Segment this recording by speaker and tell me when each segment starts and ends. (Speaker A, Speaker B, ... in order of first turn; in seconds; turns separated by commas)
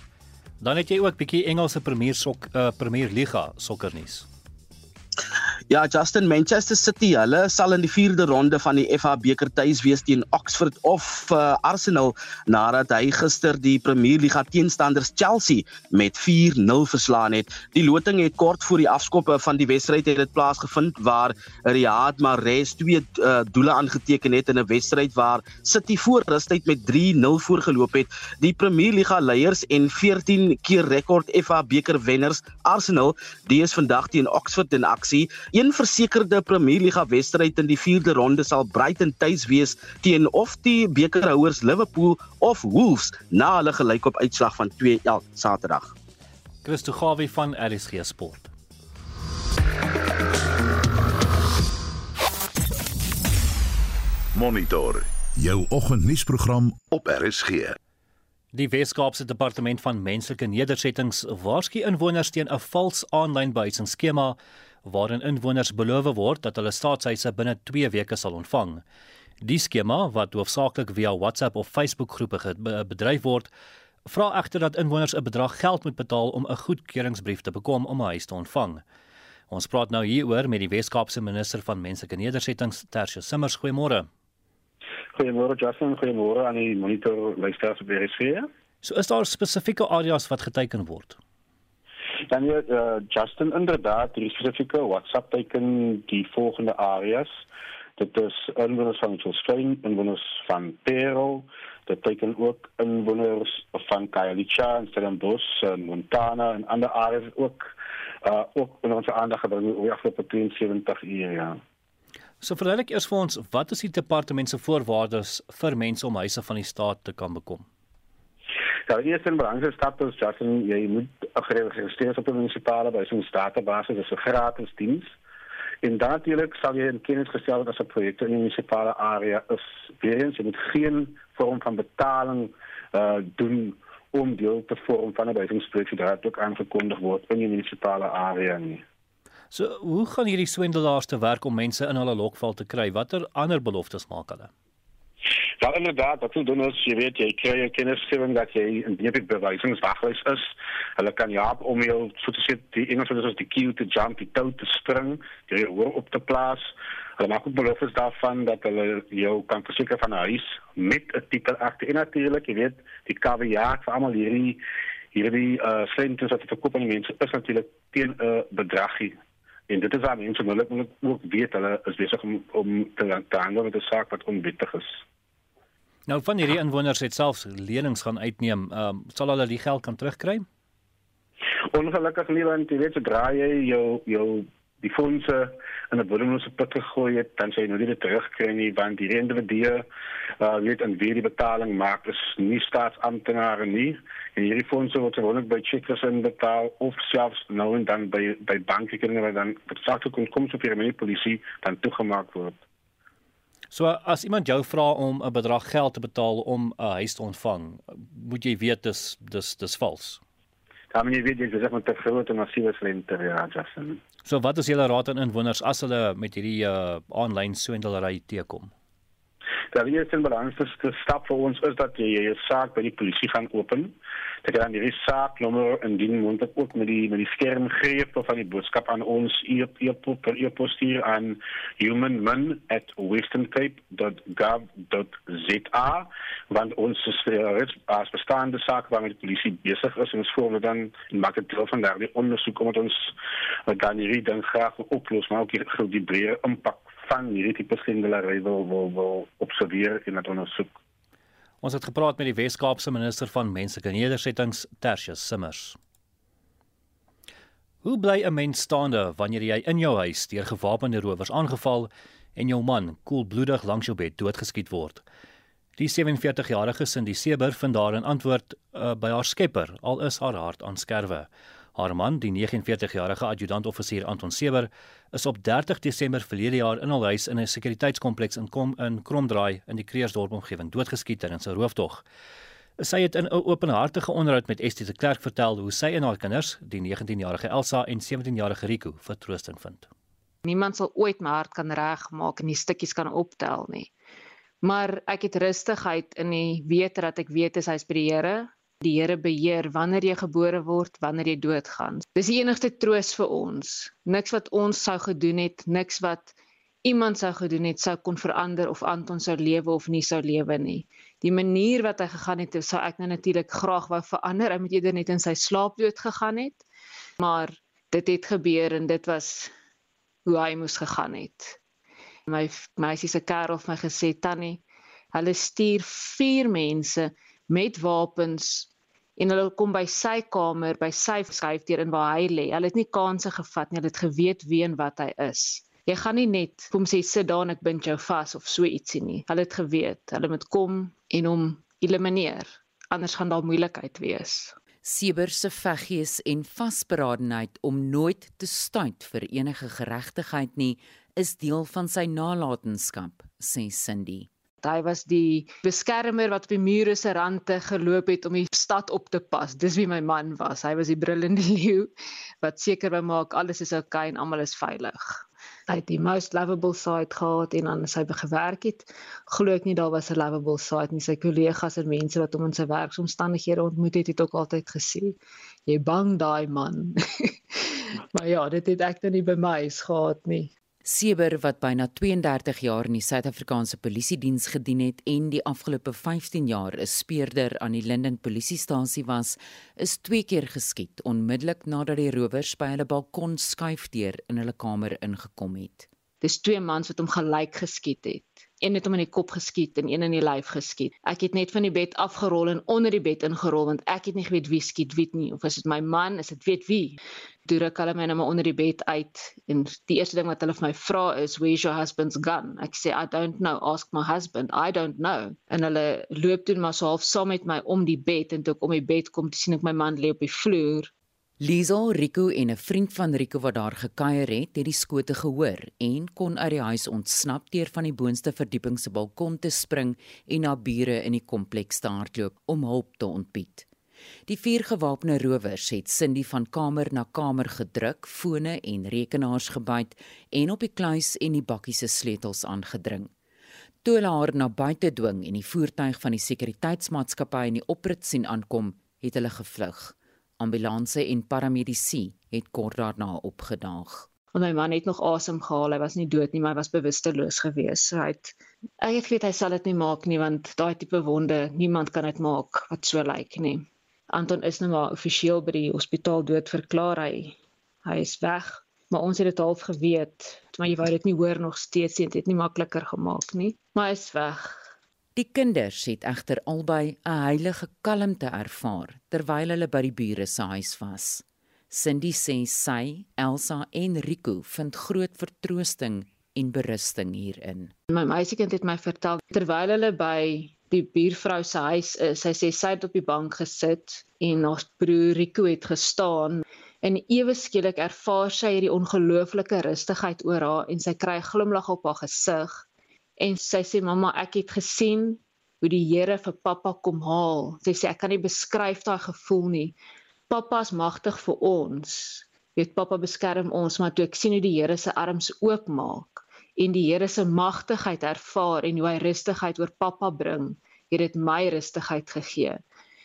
Speaker A: 0.6-4.2, Speaker B: 5.7-45.9, Speaker A: 46.6-48.5, Speaker C: 54.3-57.8, Speaker A: 58.5-68.8, Speaker A: 69.4-73.5, Speaker A: 74.0-78.8, Speaker A: 79.5-84.1, Speaker D: 85.1-88.5, Speaker A: 88.8-91.2, Speaker D: 92.3-97.4, Speaker D: 98.0-111.6, Speaker A: 112.4-117.7, Speaker D: 118.9-125.1, Speaker D: 125.8-138.8, Speaker A: 139.5-144.5, Speaker D: 145.6-164.6, Speaker D: 165.1-169.2, Speaker D: 169.7-175.0, Speaker A: 176.1-180.4, Speaker D: 181.7-189.8, Speaker D: 190.4-202.6, Speaker A: 203.7-210.2, Speaker D: 210.9-214.0, Speaker A: 214.2-218.7, Speaker D: 219.7-243.1, Speaker D: 243.7-250.7, Speaker A: 251.6-255.8, Speaker A: 257.8-265.0, Speaker A: 265.8-282.0, Speaker A: 282.8-289.9, Speaker E: 290.4-293.9, Speaker E: 294.6-316.6, Speaker E: 317.2-319.5, Speaker E: 320.2-321.6, Speaker E: 322.3-324.6, Speaker E: 325.1-344.5, Speaker F: 344.8-354.3, Speaker E: 354.6-361.9, Speaker E: 362.4-375.2, Speaker E: 375.7-380.5, Speaker F: 380.8-395.9, Speaker E: 396.2-420.9, Speaker F: 421.4-433.7, Speaker F: 434.3-443.1, Speaker F: 443.8-454.1, Speaker E: 454.3-474.7, Speaker F: 475.1-487.7, Speaker E: 487.9-502.6, Speaker E: 503.2-509.7, Speaker E: 510.3-522.6